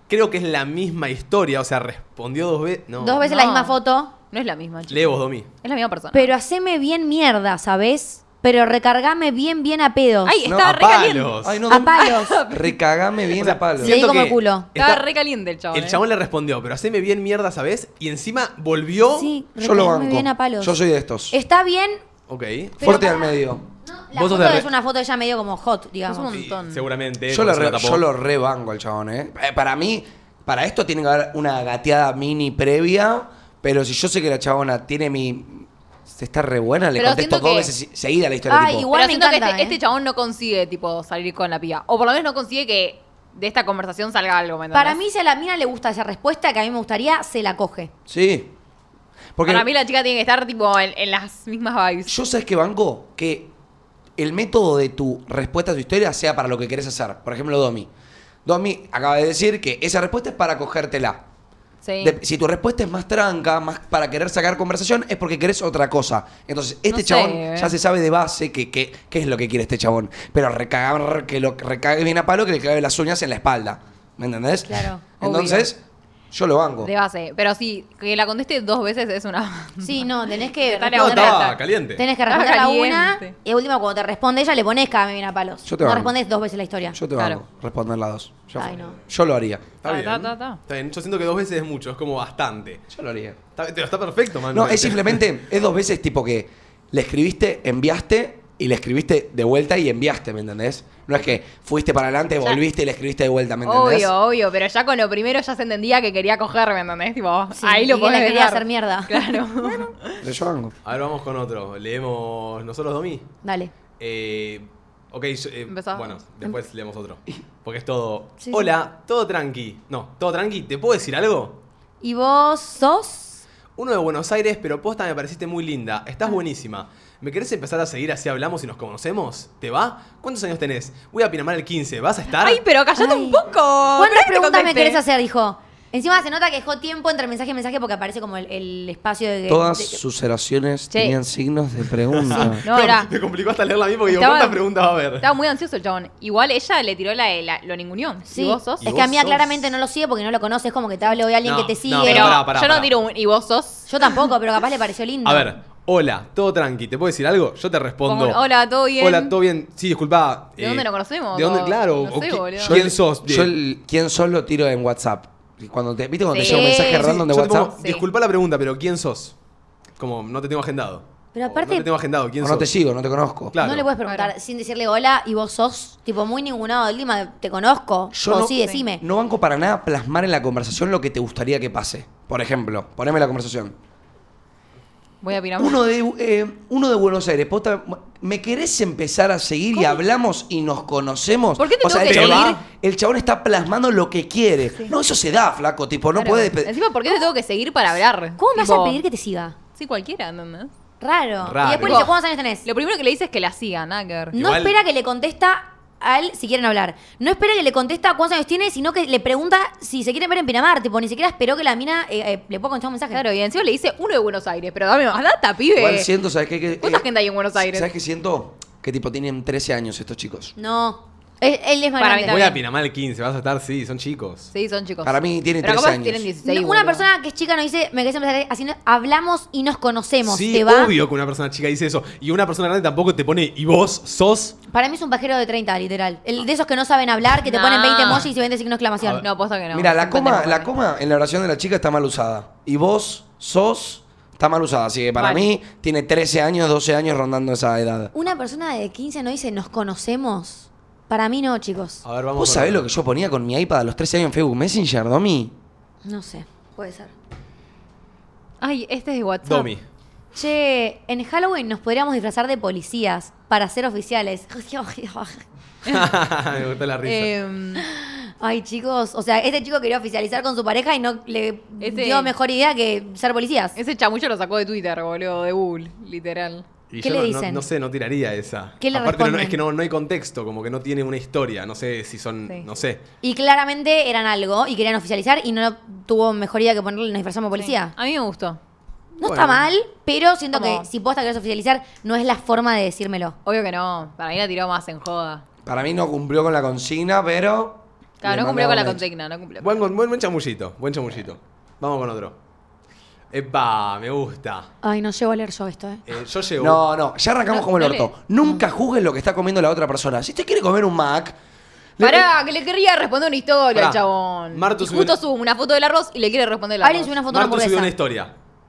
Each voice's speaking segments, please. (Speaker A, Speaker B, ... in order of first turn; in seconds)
Speaker A: 0.1-3.2, 4.9-5.5, 10.6-11.6, 13.4-15.0, 15.7-19.3, 22.3-23.0, 24.1-24.7, 26.3-28.1, 80.9-82.0, 89.8-92.8, 93.5-95.2, 110.8-113.3, 114.0-121.6, 123.8-132.6, 142.1-145.3, 148.8-149.8, 151.4-152.9, 155.2-158.4, 159.0-163.5, 166.8-169.3, 170.0-172.7, 173.5-173.9, 192.0-192.6, 201.4-202.1, 204.3-204.8, 222.2-224.5, 230.2-234.6, 252.0-252.9, 259.4-259.8, 265.9-267.3, 276.9-283.0, 289.2-289.7, 299.6-302.4, 303.3-304.7, 306.1-306.8, 313.7-314.0, 314.5-315.1, 317.3-318.3
Speaker B: 3.0-4.1, 6.1-10.4, 11.7-12.4, 13.8-14.7, 19.1-20.8, 21.3-22.0, 22.8-26.3, 38.5-39.8, 44.7-47.9, 74.7-75.1, 79.8-87.0, 88.6-89.0, 107.5-109.9, 113.4-113.7, 118.4-118.7, 122.0-123.4, 132.9-133.4, 134.0-140.0, 148.3-152.4, 153.9-155.5, 166.4-167.1, 171.3-171.9, 173.6-179.0, 198.4-199.6, 201.0-202.6, 204.3-213.2, 220.6-222.5, 226.4-230.9, 234.7-239.2, 248.1-252.0, 256.0-257.1, 260.3-265.4, 267.8-273.8, 277.0-277.6, 278.8-279.6, 283.2-287.9, 289.2-293.4, 304.8-306.0, 316.8-317.9
Speaker C: 3.2-3.8, 4.3-6.3, 10.2-12.8, 14.7-16.0, 26.1-26.8, 37.0-37.7, 38.9-45.0, 49.5-52.1, 61.8-62.2, 66.9-67.7, 75.2-75.7, 76.8-81.6, 82.3-83.3, 87.2-87.4, 89.8-90.6, 103.6-110.2, 115.7-116.2, 132.3-135.0, 140.9-141.2, 142.6-143.1, 144.1-144.6, 145.2-148.8, 152.0-154.2, 158.1-159.3, 160.6-162.8, 166.3-167.0, 174.0-174.3, 178.6-178.8, 185.2-185.8, 191.6-192.6, 196.1-199.0, 199.7-200.7, 201.8-204.4, 213.1-216.1, 216.8-217.9, 222.0-222.6, 224.5-227.1, 237.4-238.3, 239.0-240.7, 245.2-245.5, 258.6-259.7, 267.0-267.8, 271.8-272.3, 273.8-276.6, 287.5-288.6, 290.5-290.9, 293.4-295.4, 298.2-299.7, 307.5-308.1, 312.0-317.2
Speaker D: 10.4-10.8, 11.4-14.0, 19.6-21.4, 22.8-23.6, 27.3-38.9, 48.1-48.5, 49.4-49.7, 52.0-53.5, 54.2-57.9, 58.4-61.2, 62.0-76.9, 85.6-86.1, 86.9-89.7, 92.9-93.4, 94.5-104.1, 110.2-110.7, 139.5-142.6, 162.6-167.7, 172.4-173.6, 178.1-183.7, 185.6-196.7, 215.8-220.5, 225.0-226.3, 239.7-248.1, 252.4-255.5, 295.6-299.0, 306.6-311.4, 312.0-312.2